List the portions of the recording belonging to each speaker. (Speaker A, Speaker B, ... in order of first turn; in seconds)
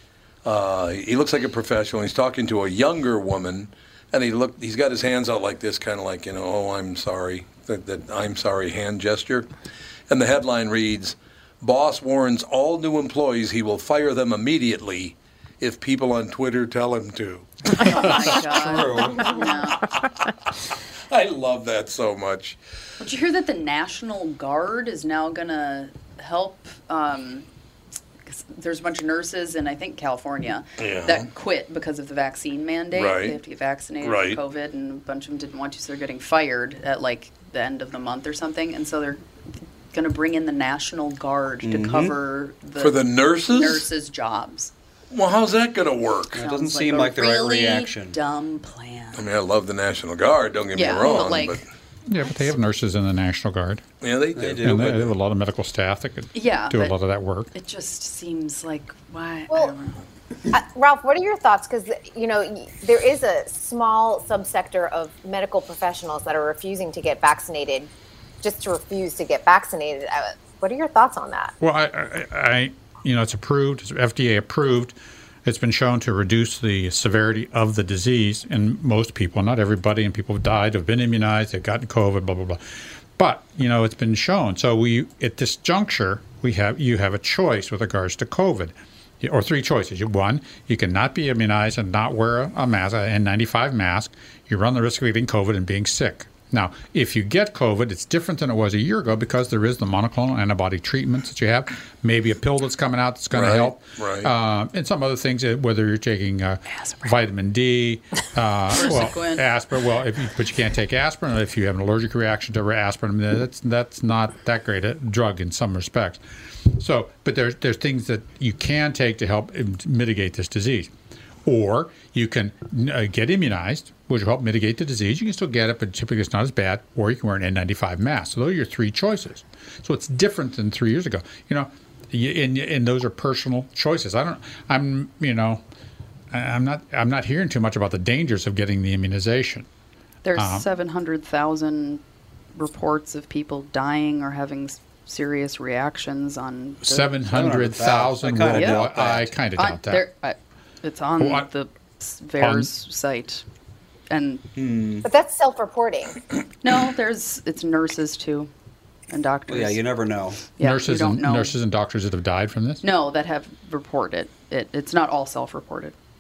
Speaker A: 0.4-9.5, 10.1-18.6, 21.1-22.6, 30.8-31.3, 32.9-33.4, 34.0-34.4, 42.8-43.9, 45.1-46.4, 49.1-51.6, 54.0-55.0, 103.3-104.3
Speaker B: 17.7-19.9, 23.0-27.5, 28.2-39.2, 39.9-44.7, 46.3-49.2, 50.7-51.6, 56.3-57.0, 57.5-60.0, 108.7-109.5, 140.2-142.0, 142.5-147.2, 148.5-148.9, 149.4-153.4, 154.1-154.4, 156.6-158.5, 159.1-159.8, 160.4-161.6, 162.8-165.9
Speaker C: 18.6-19.3, 41.6-42.1, 46.4-48.1, 54.4-55.0, 147.3-149.4, 154.6-155.1, 159.5-160.5
Speaker D: 52.1-53.8, 54.6-57.5, 71.6-82.6, 83.2-116.2, 116.7-120.9, 121.4-135.6, 136.3-139.7, 140.3-140.7, 146.8-150.1, 151.2-151.5, 152.4-152.7, 160.6-162.8
Speaker E: 60.5-67.9, 68.4-71.5, 155.0-156.2